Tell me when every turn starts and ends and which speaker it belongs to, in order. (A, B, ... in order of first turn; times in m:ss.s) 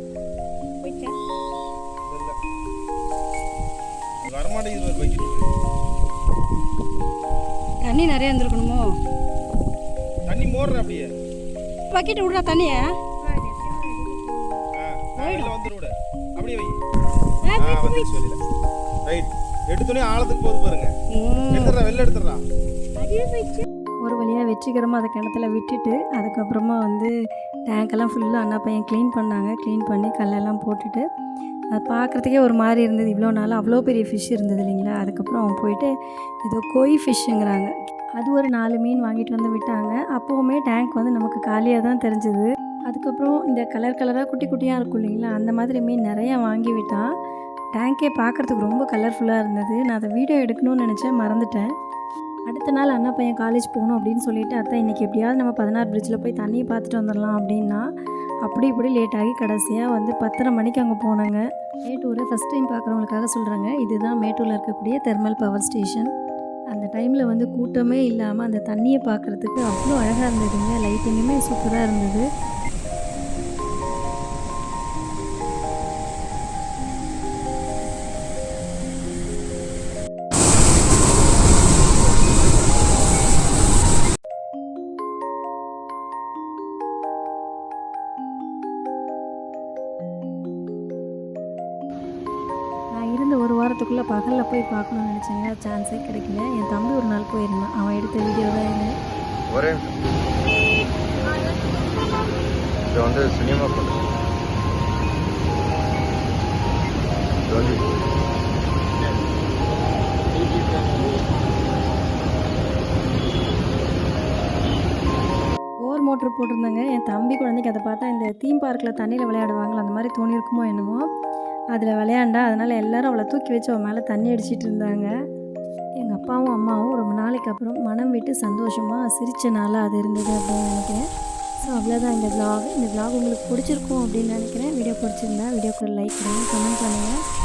0:00.8-0:01.2 A
0:02.0-0:02.4 B
0:04.2-0:05.5 B
0:07.8-0:08.9 A
0:10.3-0:11.1 B
0:11.9-0:14.6 A
0:14.8-0:16.8 B
0:15.2-0:15.5 A
0:17.4-0:18.1 A
0:17.5-0:18.4 B
0:19.1-0:20.9 B
0:21.1-0:21.8 A
0:21.5-0:22.4 B
0:23.0-0:27.1 A
0:27.7-0:31.0 A
0:31.7-0:35.9 A
0:36.4-0:47.1 A
0:47.8-0:51.7 A
0:52.5-0:57.8 A
0:58.4-1:06.1 A
1:06.7-1:12.3 A
1:33.0-1:38.9 A
1:39.5-1:40.0 C
1:42.9-1:44.1 C
1:47.5-1:48.0 C
1:55.8-2:01.0 A
2:01.7-2:05.1 A
2:06.0-2:11.0 A
2:11.6-2:17.2 A